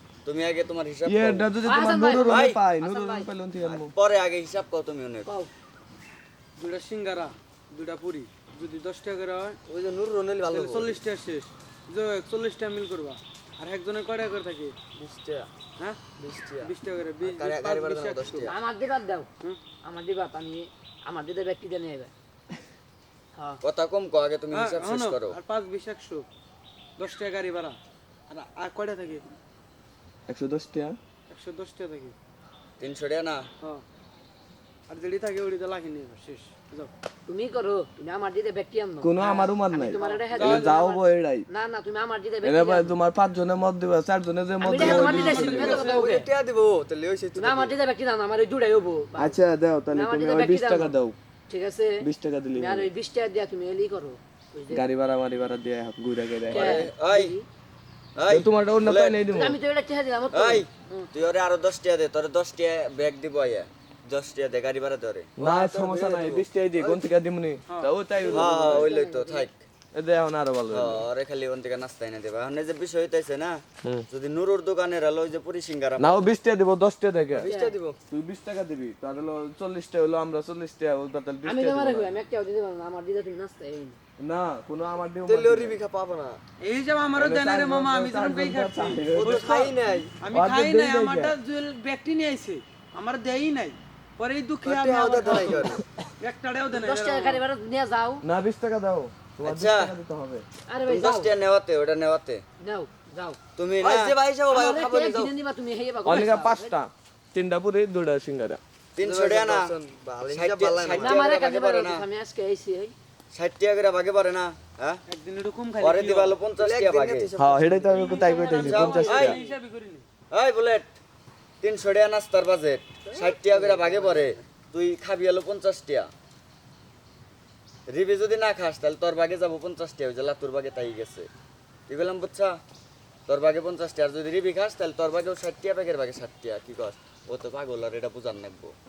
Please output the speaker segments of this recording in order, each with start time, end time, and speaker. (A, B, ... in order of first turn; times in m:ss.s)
0:00.2-0:01.5 A
0:01.0-0:03.9 B
0:01.6-0:03.3 C
0:02.3-0:02.6 A
0:03.6-0:05.3 A
0:05.2-0:05.5 C
0:06.6-0:09.6 D
0:09.7-0:11.0 E
0:10.5-0:14.7 D
0:15.0-0:15.5 E
0:15.8-0:18.5 D
0:16.2-0:16.7 E
0:17.2-0:18.5 E
0:18.2-0:18.5 A
0:18.4-0:19.3 C
0:19.8-0:22.1 C
0:23.6-0:25.4 A
0:24.5-0:26.2 D
0:27.0-0:27.8 D
0:28.3-0:29.3 D
0:30.3-0:31.0 B
0:31.3-0:32.1 D
0:32.8-0:33.5 A
0:34.9-0:36.9 D
0:37.3-0:42.9 C
0:39.0-0:41.5 B
0:39.2-0:40.8 D
0:42.4-0:45.8 B
0:44.6-0:46.3 C
0:44.8-0:45.9 D
0:45.5-0:47.7 E
0:47.4-0:49.4 C
0:49.2-0:51.2 B
0:49.9-0:50.9 C
0:51.5-0:54.8 C
0:52.0-0:52.9 B
0:54.7-0:56.8 B
0:56.5-0:57.4 C
0:56.5-0:57.3 A
0:58.2-0:59.2 A
0:58.3-0:59.6 B
0:59.3-1:01.1 C
1:00.3-1:05.3 A
1:05.4-1:08.9 B
1:05.4-1:07.1 E
1:07.7-1:07.9 D
1:08.2-1:09.5 C
1:08.2-1:09.6 A
1:09.9-1:11.0 B
1:10.7-1:16.3 A
1:16.0-1:17.5 B
1:17.3-1:18.0 E
1:17.4-1:17.7 C
1:18.1-1:22.2 B
1:21.4-1:24.0 C
1:24.2-1:25.8 B
1:25.2-1:26.4 E
1:26.6-1:37.4 D
1:27.2-1:29.4 B
1:29.1-1:30.1 E
1:30.3-1:31.3 B
1:34.6-1:35.8 E
1:36.7-1:38.2 C
1:38.2-1:40.4 B
1:39.4-1:39.9 A
1:40.7-1:41.3 C
1:40.9-1:42.4 A
1:42.6-1:43.4 C
1:43.6-1:44.1 A
1:43.8-1:45.3 E
1:44.5-1:46.7 C
1:46.0-1:48.6 B
1:49.0-1:49.7 A
1:49.0-1:51.3 E
1:50.3-1:52.0 A
1:51.0-1:52.9 C
1:53.3-1:55.0 A
1:55.1-1:56.4 D
1:55.8-1:57.3 A
1:56.6-1:58.7 E
1:57.4-1:59.4 B
1:57.9-2:00.0 D
1:58.1-1:59.4 A
2:00.3-2:01.0 A
2:01.6-2:06.1 A
2:03.0-2:04.4 E
2:07.9-2:11.3 A
2:11.9-2:12.6 A
2:13.3-2:18.7 A